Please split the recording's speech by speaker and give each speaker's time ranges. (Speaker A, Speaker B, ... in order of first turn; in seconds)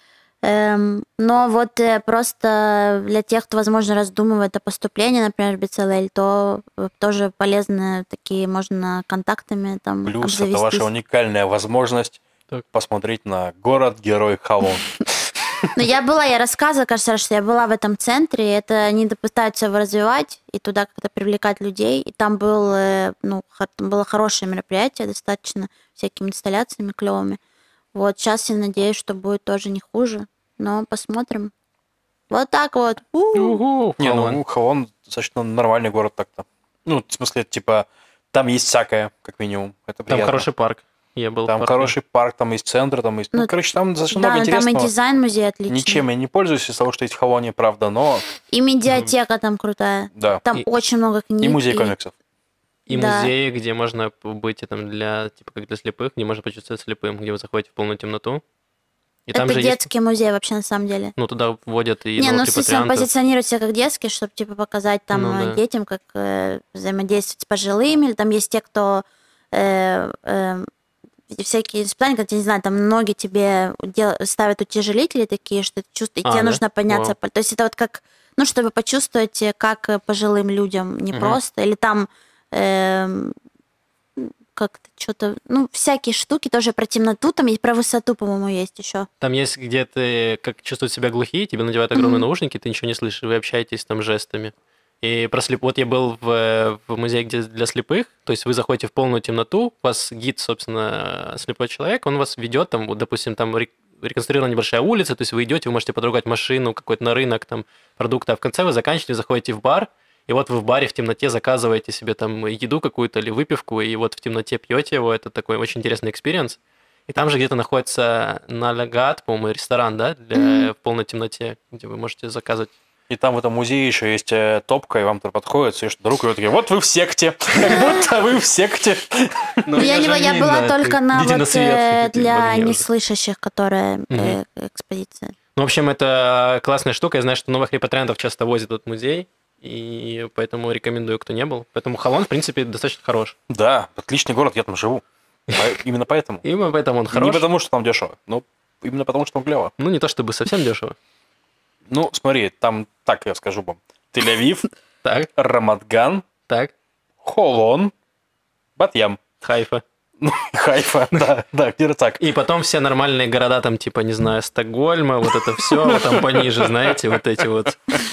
Speaker A: 0.4-10.9, 15.7-27.4, 27.9-31.5, 32.3-33.6, 44.1-46.0, 48.5-51.9, 52.9-53.3, 59.3-61.1, 62.2-70.7, 71.3-83.3, 84.2-89.1, 91.9-92.2, 120.3-120.7, 127.6-128.0, 129.8-135.3
Speaker B: 10.0-12.2, 12.7-15.0, 34.0-40.5, 41.5-44.9, 45.7-48.2, 50.1-50.4, 51.4-52.1, 81.1-81.4, 123.1-129.7, 143.5-146.4, 147.1-149.7, 151.9-154.6, 155.3-156.2, 157.2-157.9, 158.8-159.2, 160.2-162.2, 165.6-166.9
Speaker C: 33.4-34.4, 40.1-41.9, 52.9-58.4, 59.3-59.9, 61.2-63.1, 65.1-65.6, 76.2-77.1, 89.2-122.7, 129.6-132.8, 134.1-134.4, 135.6-143.3, 146.4-147.4, 149.8-150.9, 155.0-155.3, 159.4-159.8, 162.2-168.0